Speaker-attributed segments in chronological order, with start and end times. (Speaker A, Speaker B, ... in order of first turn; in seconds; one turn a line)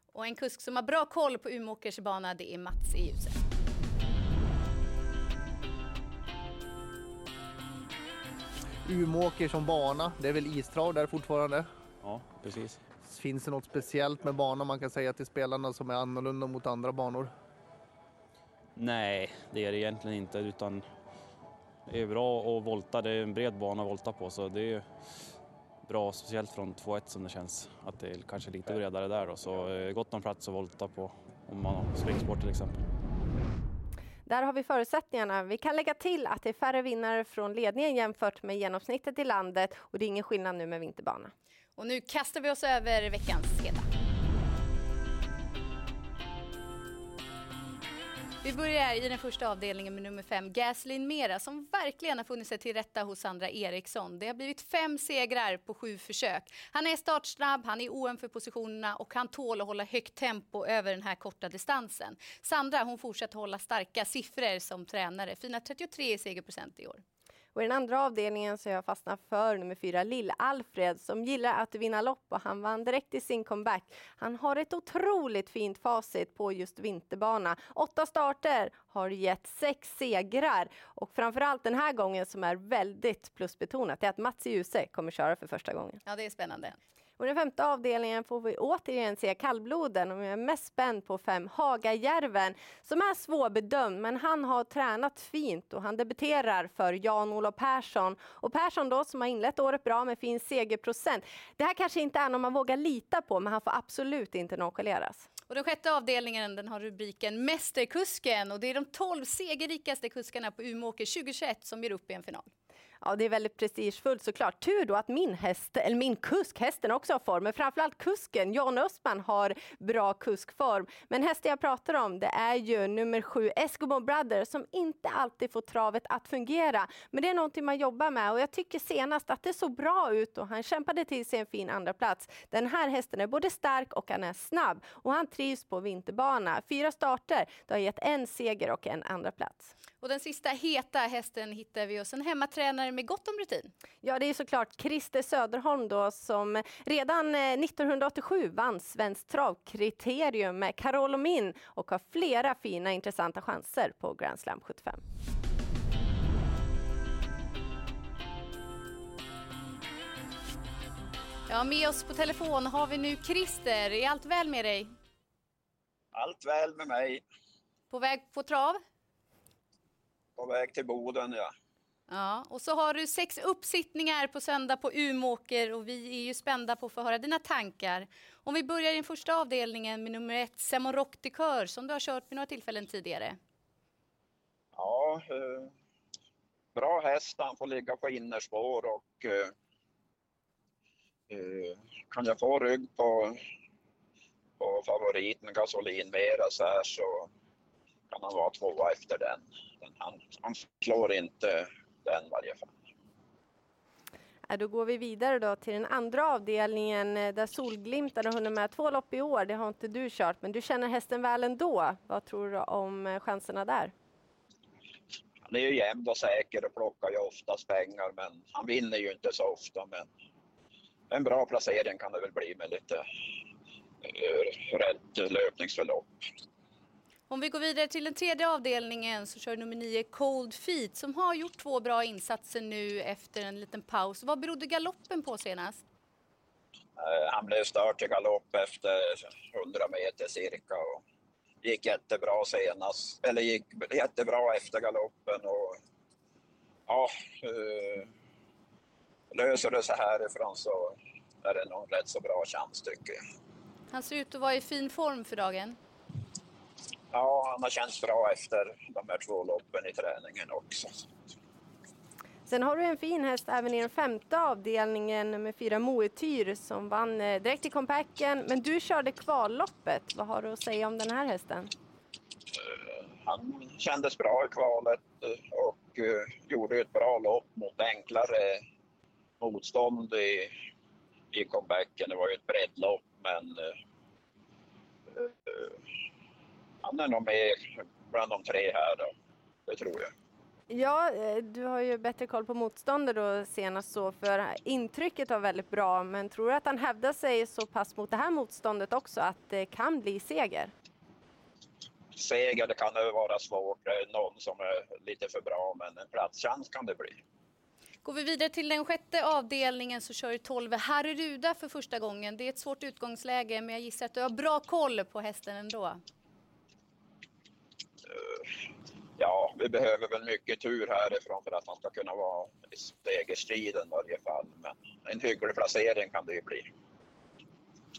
Speaker A: 0.1-3.4
Speaker B: 8.9-11.7
Speaker C: 12.0-12.8
Speaker B: 13.2-17.3
Speaker C: 18.8-20.9
Speaker C: 21.9-24.9
Speaker C: 25.9-32.8
Speaker D: 34.3-41.3
Speaker A: 41.8-43.9
Speaker A: 48.4-67.0
Speaker D: 67.5-86.0
Speaker A: 86.1-86.8
Speaker D: 87.2-105.3
Speaker A: 105.5-112.5
Speaker D: 113.0-139.7
Speaker A: 140.0-143.7
Speaker D: 144.0-155.0
Speaker A: 161.5-164.9
Speaker E: 166.1-167.2
Speaker A: 167.9-168.8
Speaker E: 170.4-171.5
Speaker A: 172.1-183.4
Speaker E: 184.8-185.7
Speaker E: 186.8-189.5
Speaker E: 191.3-193.4
Speaker E: 194.6-197.3
Speaker E: 198.1-202.7
Speaker D: 204.5-213.9
Speaker E: 215.5-220.1
Speaker E: 221.1-223.0
Speaker E: 224.0-226.1
Speaker A: 227.3-235.8
Speaker E: 237.0-241.0
Speaker E: 241.6-245.8
Speaker E: 246.9-248.1
Speaker E: 249.3-253.2
Speaker A: 253.9-255.8
Speaker E: 257.1-260.9
Speaker D: 262.5-271.7
Speaker E: 272.6-278.6
Speaker E: 279.4-280.5
Speaker E: 281.3-283.7
Speaker E: 285.1-285.8
Speaker E: 286.8-289.1
Speaker E: 289.7-290.1
Speaker D: 290.7-300.7
Speaker E: 302.1-307.2
Speaker A: 308.0-316.0
Speaker E: 318.1-318.5
Speaker E: 319.2-326.7